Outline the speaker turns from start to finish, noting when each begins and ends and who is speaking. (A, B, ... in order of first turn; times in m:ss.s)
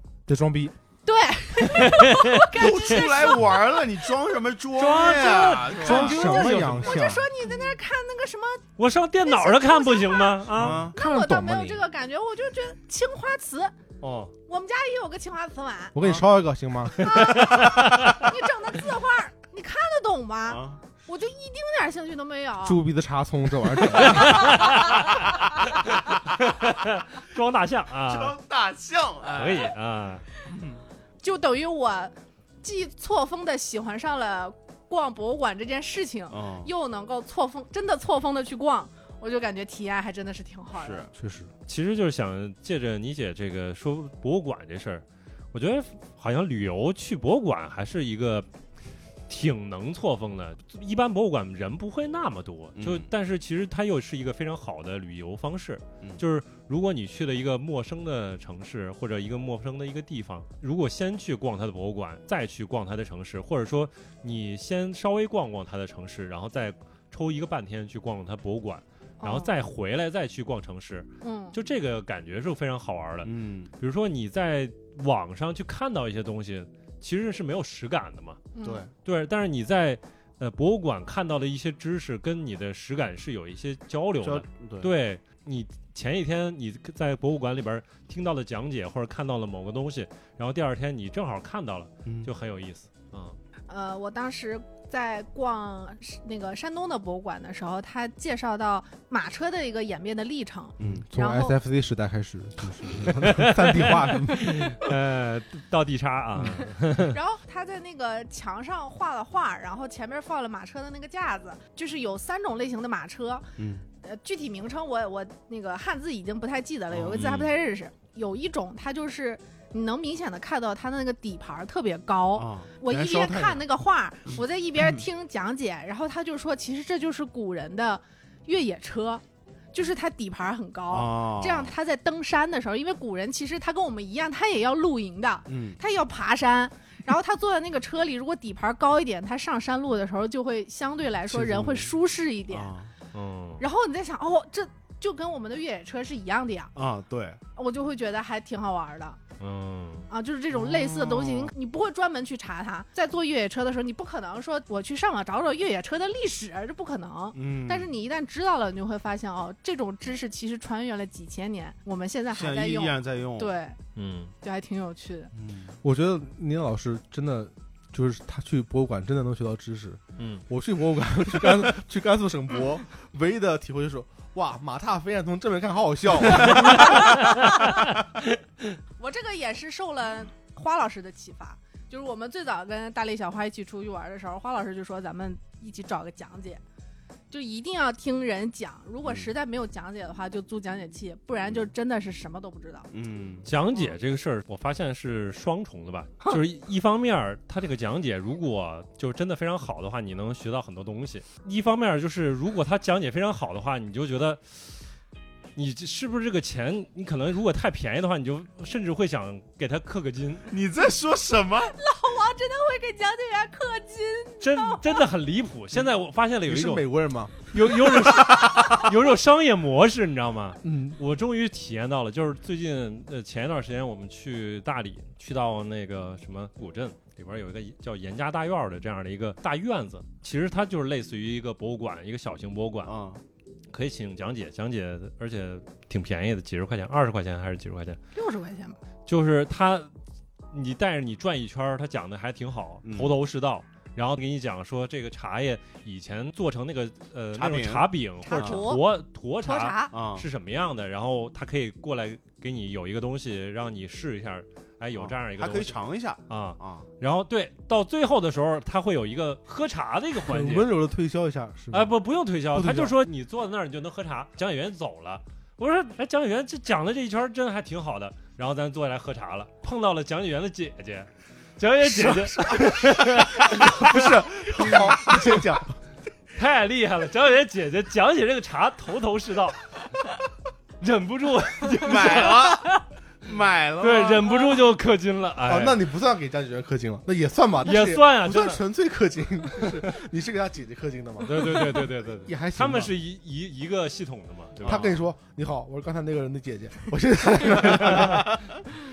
0:00.3-0:00.7 A
0:01.0-0:03.8 B
0:01.8-0:02.8 C
0:02.5-0:07.7 D
0:04.8-0:07.0 C
0:05.8-0:07.3 A
0:05.8-0:08.6 B
0:08.8-0:10.9 C
0:09.2-0:10.4 B
0:10.6-0:11.0 D
0:10.6-0:11.8 A
0:10.9-0:13.8 B
0:14.0-0:14.3 C
0:14.5-0:16.0 B
0:15.9-0:17.2 A
0:17.0-0:22.8 B
0:17.4-0:18.2 C
0:20.5-0:20.8 D
0:22.6-0:24.6 A
0:24.1-0:25.2 C
0:26.0-0:28.4 C
0:28.1-0:29.7 D
0:29.3-0:30.2 C
0:30.4-0:30.8 D
0:31.2-0:41.1 B
0:36.3-0:36.7 D
0:40.8-0:41.1 D
0:41.1-0:41.5 A
0:41.7-0:48.5 C
0:49.3-1:18.4 C
0:52.8-0:53.1 D
1:09.2-1:09.5 B
1:11.2-1:11.6 B
1:13.2-1:13.7 D
1:18.5-1:18.8 B
1:18.6-1:18.9 D
1:19.0-1:33.4 C
1:24.2-1:24.9 D
1:32.0-1:32.3 D
1:33.7-1:41.6 B
1:40.8-1:41.1 D
1:40.8-1:44.9 A
1:43.0-1:47.2 C
1:47.1-1:53.5 B
1:53.6-1:53.8 D
1:54.0-2:22.7 B
1:56.9-1:57.5 D
2:02.3-2:03.6 D
2:10.9-2:11.7 D
2:15.5-2:15.8 D
2:21.3-2:21.9 D
2:22.5-2:22.9 D
2:23.1-2:23.6 C
2:23.6-2:26.7 B
2:26.7-2:27.4 D
2:27.6-2:29.2 B
2:29.4-2:30.1 C
2:30.1-2:43.8 B
2:30.5-2:31.5 D
2:37.3-2:37.9 D
2:42.3-2:43.5 D
2:44.0-2:44.3 C
2:44.4-2:45.3 B
2:45.3-2:45.8 D
2:45.8-2:57.2 A
2:50.2-2:50.4 C
2:56.5-2:57.8 C
2:59.0-3:06.6 B
3:07.3-3:12.9 B
3:09.0-3:09.3 D
3:12.9-3:13.5 D
3:13.4-3:24.9 C
3:25.6-3:30.5 C
3:30.5-3:31.7 D
3:31.7-3:35.0 B
3:34.4-3:36.9 C
3:36.4-3:38.2 A
3:37.4-3:52.9 C
3:40.6-3:41.0 A
3:52.8-3:53.2 D
3:53.7-3:58.0 C
3:58.1-3:58.8 B
3:59.1-3:59.9 C
4:00.5-4:20.7 C
4:02.8-4:03.2 D
4:07.3-4:08.7 D
4:08.2-4:08.8 B
4:09.4-4:10.0 B
4:09.9-4:10.3 D
4:14.9-4:16.9 D
4:20.2-4:21.9 A
4:21.7-4:35.2 C
4:22.5-4:23.0 A
4:31.8-4:35.7 A
4:36.3-4:39.7 C
4:40.8-4:42.6 C
4:41.8-4:44.6 D
4:43.8-4:45.9 C
4:45.4-4:52.9 A
4:47.6-4:48.6 C
4:51.2-4:55.0 C
4:54.6-4:55.0 D
4:54.6-4:58.4 A
4:57.7-4:58.2 C
4:57.9-4:58.4 D